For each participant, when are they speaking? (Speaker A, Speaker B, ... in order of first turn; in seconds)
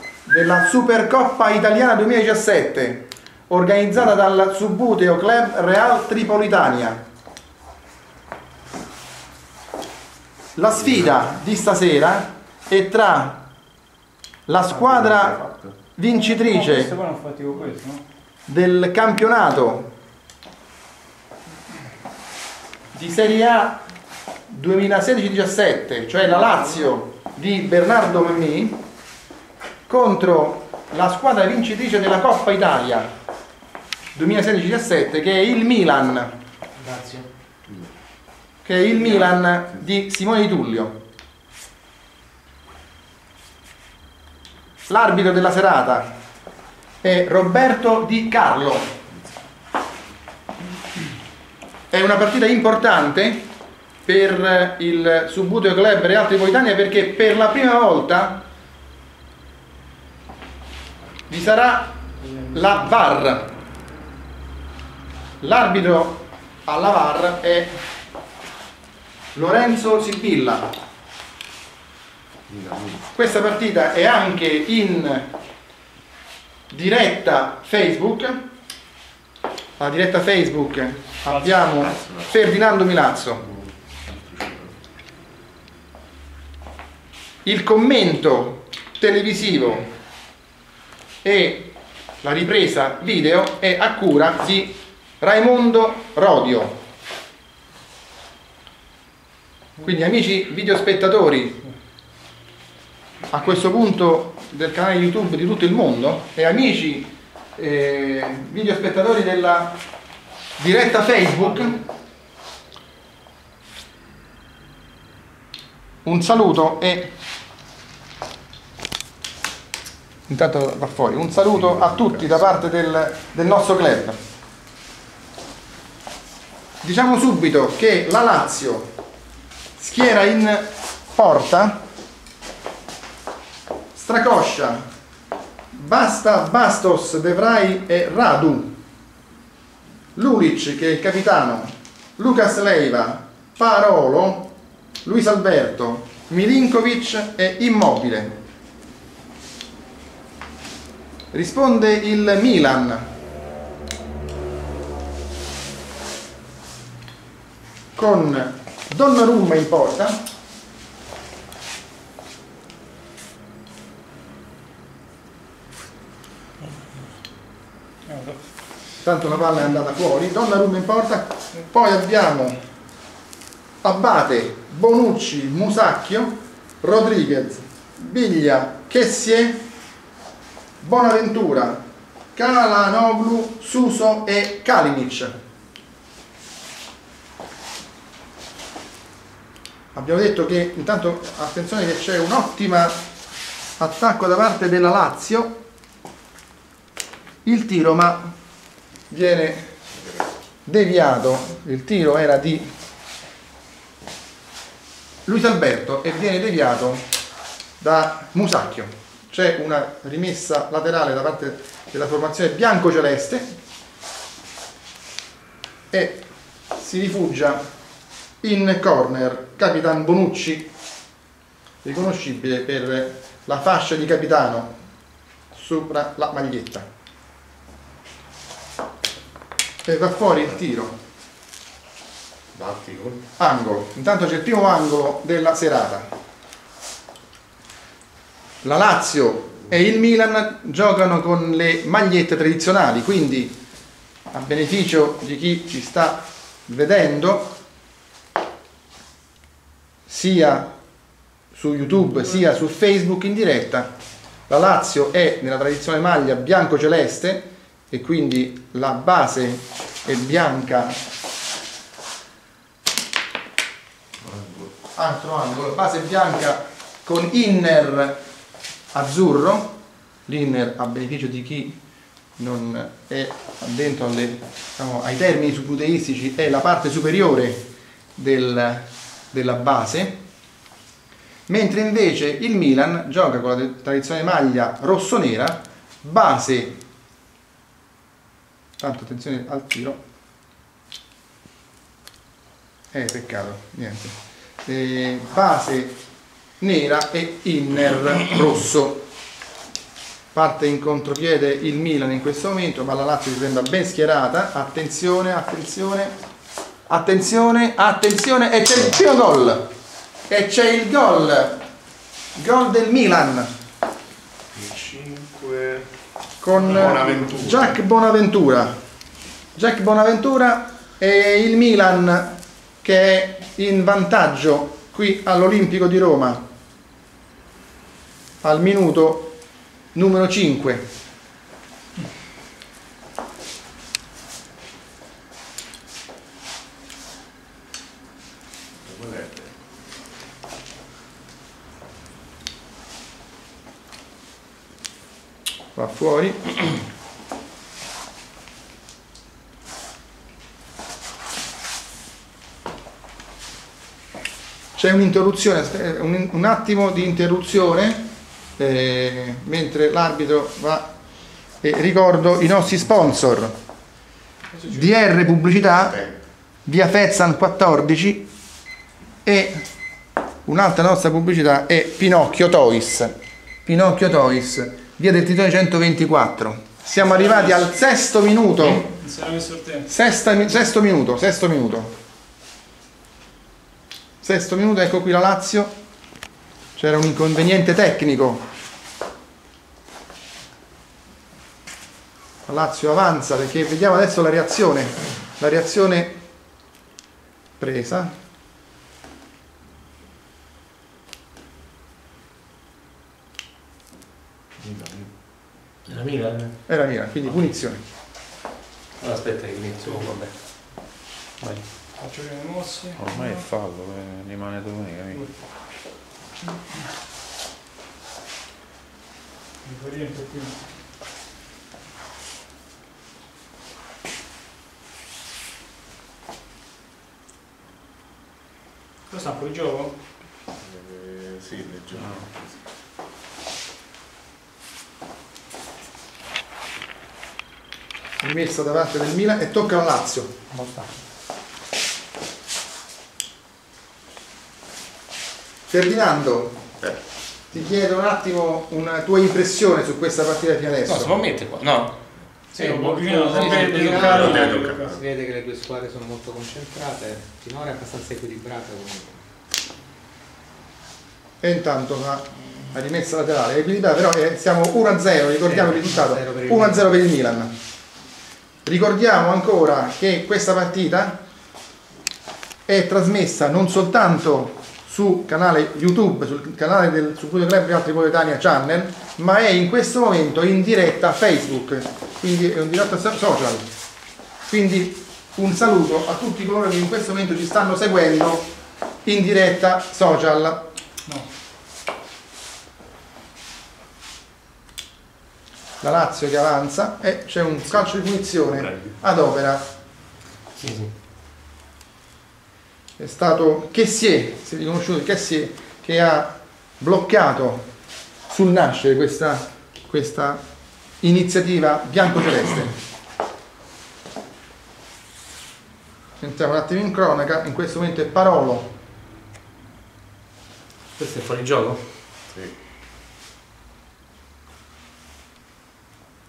Speaker A: 0.3-7.0, 10.6-13.4, 14.5-16.9, 18.5-19.9, 22.9-23.8, 24.5-28.8, 29.9-33.1, 34.1-36.3, 38.6-41.0, 44.9-46.1, 47.0-49.0, 51.9-53.5, 54.0-58.5, 61.3-63.5, 65.4-67.8, 69.3-70.7, 73.1-75.3, 76.7-78.4, 79.8-83.4, 87.5-89.9, 91.2-96.8, 99.8-101.7, 103.3-109.8, 110.6-111.8, 116.0-117.1, 120.3-124.2, 126.8-128.9, 129.8-131.8, 133.9-134.8, 135.7-138.8, 140.2-144.5, 145.1-148.4, 151.3-153.1, 157.9-160.2, 169.0-172.6, 173.8-179.7, 180.8-181.8, 182.3-185.3, 189.9-193.0, 193.8-195.6, 197.4-198.3, 199.1-199.7, 200.7-202.7, 205.3-207.1, 207.8-213.5, 215.9-217.6, 218.4-220.7, 221.8-224.7, 225.5-226.9, 229.8-231.0, 233.4-236.1, 238.6-243.6, 244.3-247.6, 250.1-250.7, 251.5-253.9, 254.5-261.0, 264.9-268.2, 268.9-271.8, 272.4-280.2, 281.5-286.8, 288.8-290.0, 292.9-296.0, 296.6-299.1, 300.3-306.1, 306.9-309.7, 310.3-311.6, 312.4-313.5, 316.4-318.7, 319.6-326.4, 328.4-329.4, 329.9-330.9, 345.8-346.8, 354.8-358.1, 358.6-360.9, 361.6-363.6, 364.7-366.1, 366.6-368.3, 369.2-369.6, 370.4-378.9, 379.9-381.9, 384.2-385.7, 386.8-388.5, 392.5-396.2, 397.6-398.1, 406.7-407.8, 438.2-440.3, 445.7-446.6, 447.5-451.1, 461.4-467.5, 468.6-471.2, 472.7-483.7, 484.5-488.5, 489.1-490.7, 495.8-499.7, 503.0-507.7, 508.3-510.4, 511.0-512.8, 516.2-518.7
Speaker B: 14.8-15.8, 72.5-73.0, 81.8-82.5, 83.4-84.8, 232.6-233.2, 264.2-264.7, 314.6-315.9, 316.6-317.8, 338.9-339.5, 404.7-405.0, 413.0-415.2, 430.6-432.4, 454.1-455.0
Speaker C: 16.1-18.0, 81.3-81.8, 168.1-168.4, 364.6-364.8, 377.0-377.7, 378.6-379.9, 412.0-413.5, 419.6-420.6, 429.1-430.0, 452.5-455.0
Speaker D: 36.8-37.3, 405.9-407.3, 409.0-410.7, 440.5-440.9, 450.9-452.0, 452.5-454.3, 500.6-500.9, 521.0-521.8
Speaker E: 453.1-459.2, 465.4-467.0